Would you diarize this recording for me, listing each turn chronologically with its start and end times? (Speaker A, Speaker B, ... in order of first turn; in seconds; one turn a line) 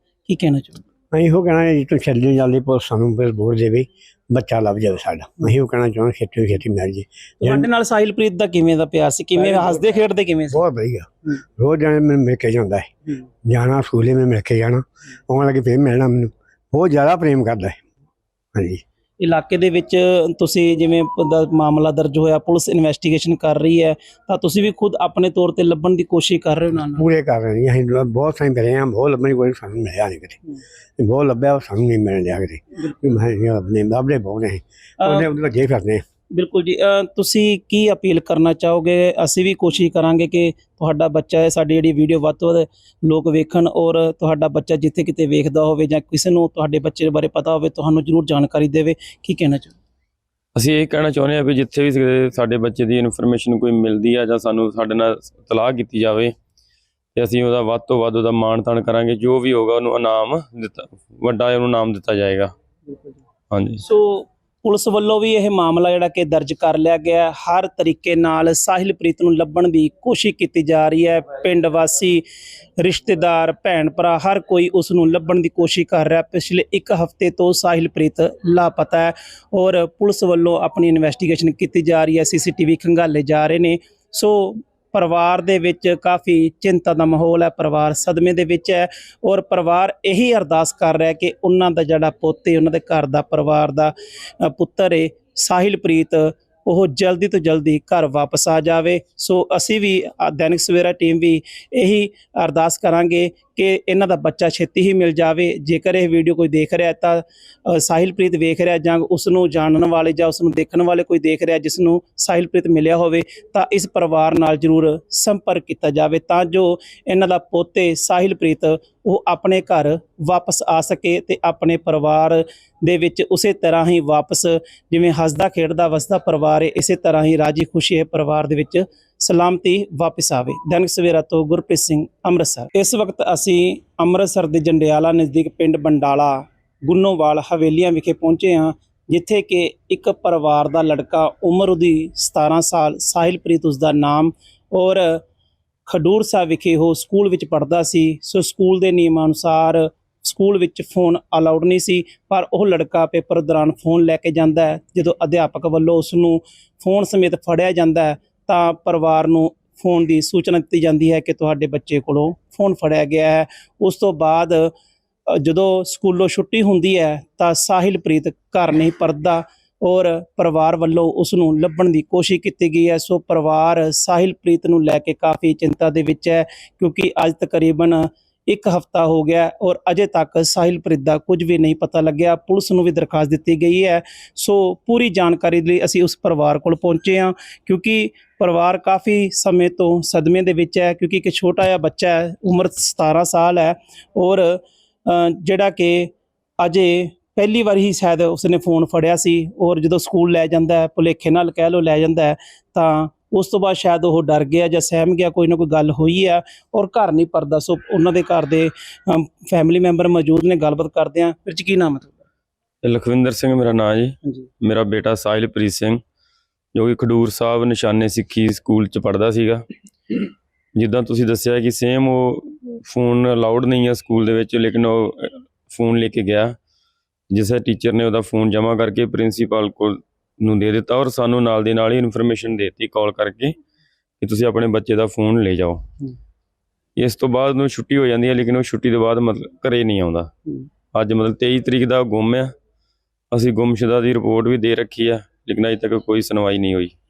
Speaker A: 0.2-0.8
Speaker B: 1.1-7.7
Speaker A: 7.4-10.6
Speaker B: 9.4-9.7
Speaker B: 10.5-17.8
Speaker B: 18.5-18.8
Speaker A: 19.2-27.1
Speaker B: 26.9-30.4
Speaker B: 31.0-36.0
Speaker A: 35.0-35.3
Speaker A: 36.3-49.8
Speaker C: 50.5-56.3
Speaker C: 57.1-62.5
Speaker C: 63.5-63.8
Speaker A: 63.8-72.2
Speaker A: 72.8-145.2
Speaker A: 145.8-164.7
Speaker A: 165.3-212.2
Speaker C: 212.8-216.0
Speaker C: 216.7-220.2
Speaker C: 220.8-226.6
Speaker C: 227.3-233.5
Speaker C: 234.2-235.8
Speaker C: 237.0-240.3
Speaker C: 240.9-242.5
Speaker C: 243.3-246.9